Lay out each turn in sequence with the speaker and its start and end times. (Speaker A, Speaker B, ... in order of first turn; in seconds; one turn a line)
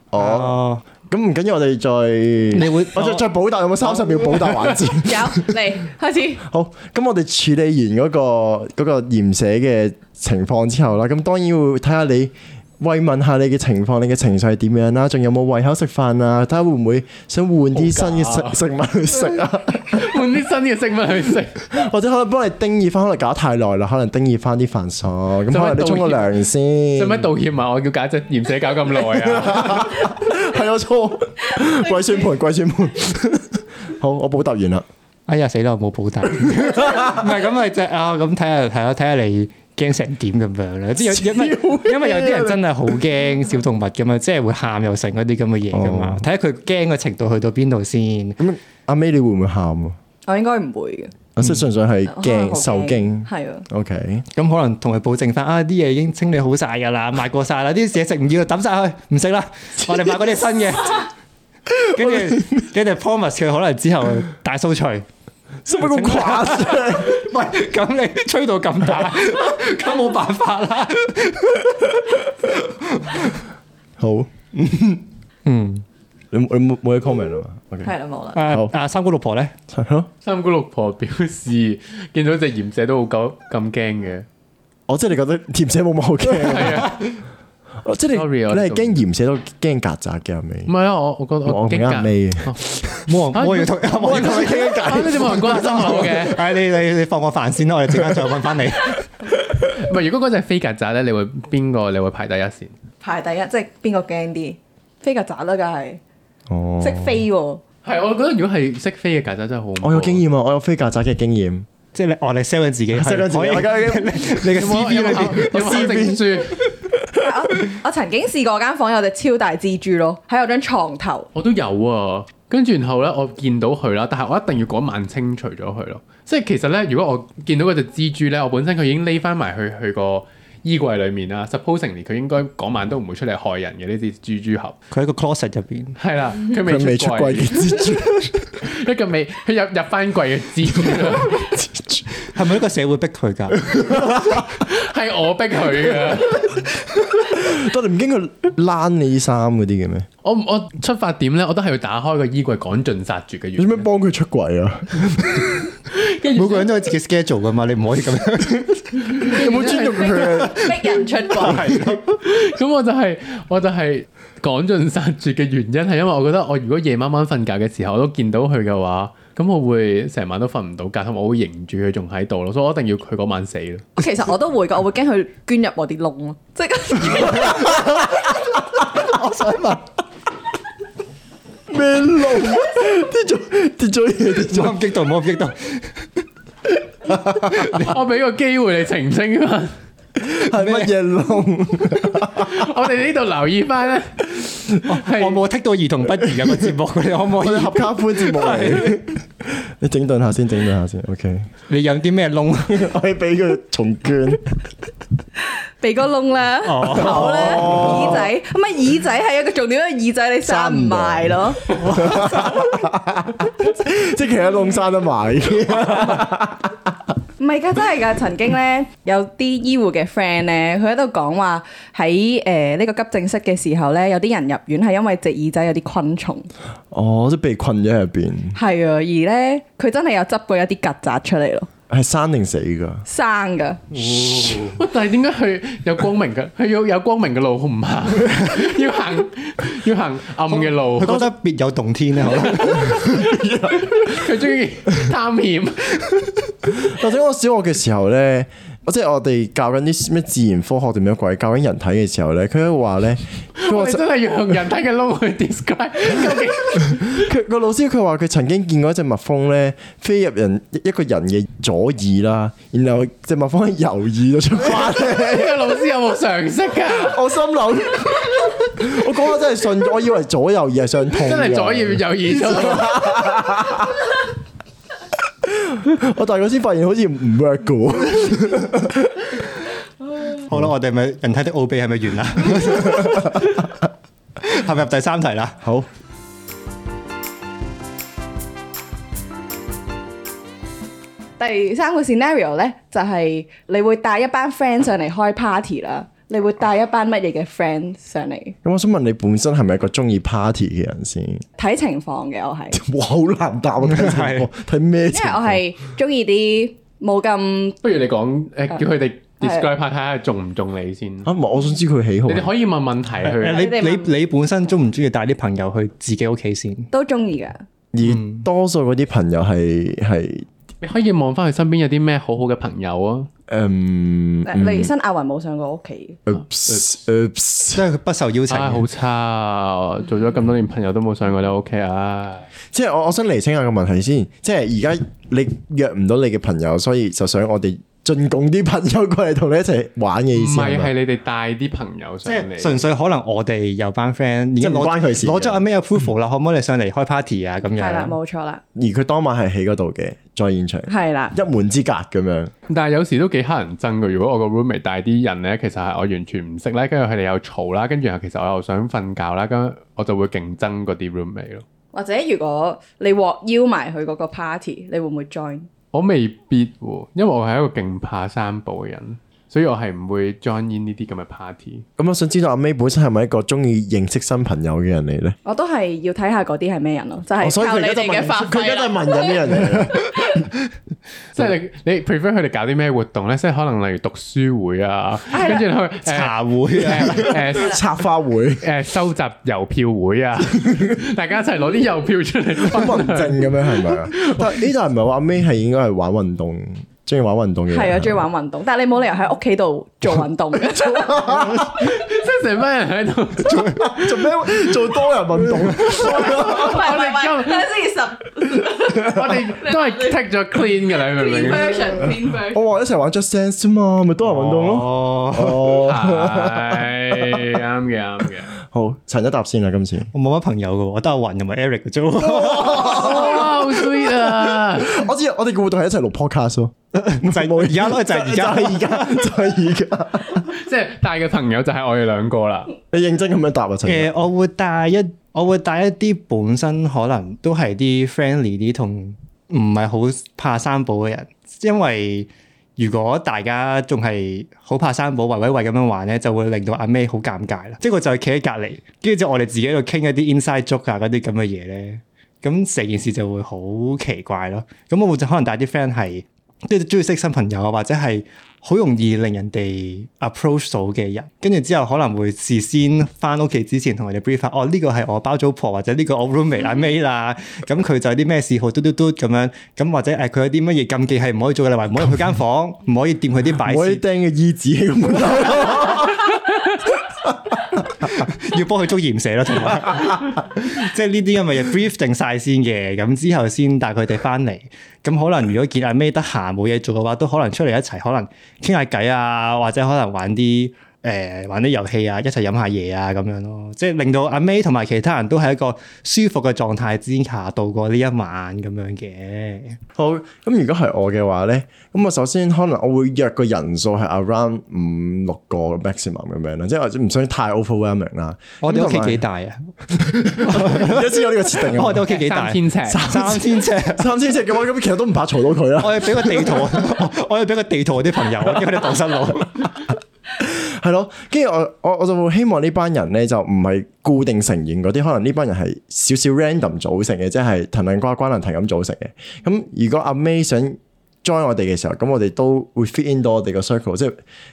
Speaker A: 0.1-5.6
Speaker B: 0.2-0.8
Speaker B: 2.5-3.3
Speaker B: 3.9-4.8
Speaker C: 5.0-6.4
Speaker A: 6.4-20.1
Speaker D: 17.7-18.6
Speaker D: 19.4-21.7
Speaker A: 21.7-27.3
Speaker D: 25.5-26.4
Speaker D: 27.0-30.1
Speaker A: 29.3-34.9
Speaker B: 35.3-48.4
Speaker A: 36.4-37.2
Speaker A: 41.0-43.0
Speaker A: 45.7-46.2
Speaker A: 48.4-50.0
Speaker C: 50.3-51.1
Speaker A: 51.4-54.2
Speaker C: 52.1-53.7
Speaker B: 54.3-61.1
Speaker B: 61.8-65.1
Speaker A: 62.0-62.7
Speaker A: 65.7-67.3
Speaker B: 65.7-73.4
Speaker A: 74.0-75.0
Speaker B: 75.5-75.8
Speaker A: 76.3-77.9
Speaker C: 77.8-78.4
Speaker B: 78.3-79.6
Speaker A: 78.5-78.7
Speaker A: 79.7-80.1
Speaker D: 80.2-84.3
Speaker A: 84.9-87.0
Speaker D: 86.4-87.1
Speaker B: 86.6-87.0
Speaker A: 87.8-90.7
Speaker D: 88.1-89.0
Speaker D: 90.7-96.5
Speaker A: 91.5-93.0
Speaker B: 93.1-99.1
Speaker A: 93.9-96.2
Speaker D: 99.6-102.7
Speaker C: 103.0-106.0
Speaker A: 106.5-107.2
Speaker C: 106.8-107.6
Speaker D: 107.8-110.2
Speaker A: 109.8-111.7
Speaker B: 111.9-116.2
Speaker A: 112.9-116.4
Speaker D: 114.5-116.6
Speaker A: 117.0-117.3
Speaker C: 117.2-121.3
Speaker D: 121.3-134.8
Speaker B: 134.9-136.0
Speaker D: 136.0-137.9
Speaker A: 136.6-138.6
Speaker D: 138.6-141.5
Speaker A: 140.9-142.1
Speaker B: 142.3-143.8
Speaker A: 143.7-144.5
Speaker D: 144.4-146.6
Speaker A: 147.2-150.1
Speaker D: 150.2-153.8
Speaker A: 153.6-155.7
Speaker D: 155.9-156.7
Speaker B: 156.3-162.2
Speaker A: 159.1-160.8
Speaker C: 159.1-161.8
Speaker A: 161.4-162.0
Speaker D: 162.2-173.9
Speaker C: 174.0-177.8
Speaker A: 177.1-178.3
Speaker B: 179.0-179.8
Speaker A: 181.7-184.8
Speaker B: 184.4-186.2
Speaker A: 187.1-187.8
Speaker B: 187.5-187.9
Speaker D: 187.8-189.8
Speaker A: 190.2-192.7
Speaker B: 190.5-190.9
Speaker D: 192.3-195.4
Speaker B: 194.9-199.0
Speaker A: 196.2-196.7
Speaker A: 197.4-201.5
Speaker B: 201.7-202.9
Speaker A: 202.7-204.4
Speaker C: 205.8-211.7
Speaker B: 206.7-208.3
Speaker A: 206.9-208.3
Speaker A: 210.4-216.9
Speaker B: 211.9-212.5
Speaker C: 217.4-226.5
Speaker A: 226.9-228.6
Speaker C: 228.6-231.7
Speaker A: 231.9-233.0
Speaker C: 233.1-233.8
Speaker B: 233.9-234.8
Speaker D: 234.2-241.3
Speaker B: 240.5-243.1
Speaker D: 242.5-246.1
Speaker A: 242.6-244.3
Speaker A: 246.7-254.0
Speaker D: 253.6-257.3
Speaker A: 257.1-265.7
Speaker D: 264.6-267.3
Speaker A: 266.9-274.1
Speaker D: 271.2-273.3
Speaker A: 275.4-279.5
Speaker B: 280.5-283.6
Speaker A: 283.0-283.4
Speaker B: 284.4-285.6
Speaker A: 285.6-285.9
Speaker C: 291.4-298.6
Speaker A: 298.6-301.4
Speaker C: 301.6-302.8
Speaker A: 302.7-305.6
Speaker B: 303.9-304.5
Speaker C: 305.1-307.8
Speaker D: 307.8-311.3
Speaker C: 309.4-309.7
Speaker A: 311.2-312.5
Speaker D: 312.3-313.7
Speaker B: 313.2-316.9
Speaker C: 313.5-314.1
Speaker C: 316.9-317.6
Speaker A: 317.9-320.5
Speaker B: 318.0-318.4
Speaker D: 320.8-323.3
Speaker A: 323.5-324.9
Speaker C: 324.4-326.2
Speaker A: 326.3-327.8
Speaker D: 326.7-326.9
Speaker B: 327.7-328.9
Speaker D: 328.5-332.5
Speaker A: 332.7-340.9
Speaker D: 340.3-342.8
Speaker B: 342.3-348.1
Speaker A: 344.6-345.6
Speaker C: 347.8-348.6
Speaker A: 348.8-352.5
Speaker C: 350.9-351.4
Speaker D: 352.7-361.6
Speaker C: 361.9-365.7
Speaker D: 365.9-371.9
Speaker A: 372.0-375.4
Speaker C: 375.4-380.4
Speaker A: 377.4-380.1
Speaker D: 381.4-387.8
Speaker C: 385.3-385.7
Speaker B: 386.1-387.5
Speaker A: 387.5-388.6
Speaker D: 388.6-394.6
Speaker A: 392.6-398.1
Speaker C: 397.7-401.4
Speaker A: 400.7-401.7
Speaker D: 401.6-403.9
Speaker B: 403.4-404.1
Speaker A: 403.8-406.8
Speaker D: 405.8-407.7
Speaker C: 406.0-410.1
Speaker D: 408.9-412.1
Speaker C: 411.1-412.6
Speaker A: 412.0-417.4
Speaker B: 414.2-415.8
Speaker D: 415.8-418.5
Speaker A: 418.6-420.1
Speaker B: 420.1-423.1
Speaker A: 422.2-430.5
Speaker D: 422.7-425.1
Speaker B: 426.9-429.2
Speaker D: 430.4-432.7
Speaker A: 432.9-434.1
Speaker B: 433.9-474.0
Speaker A: 473.6-476.4
Speaker A: 477.3-478.1
Speaker B: 478.1-499.8
Speaker A: 500.0-509.2
Speaker B: 508.6-514.1
Speaker A: 509.9-512.1
Speaker D: 512.1-513.1
Speaker A: 512.9-517.1
Speaker B: 515.8-519.9
Speaker A: 520.4-534.2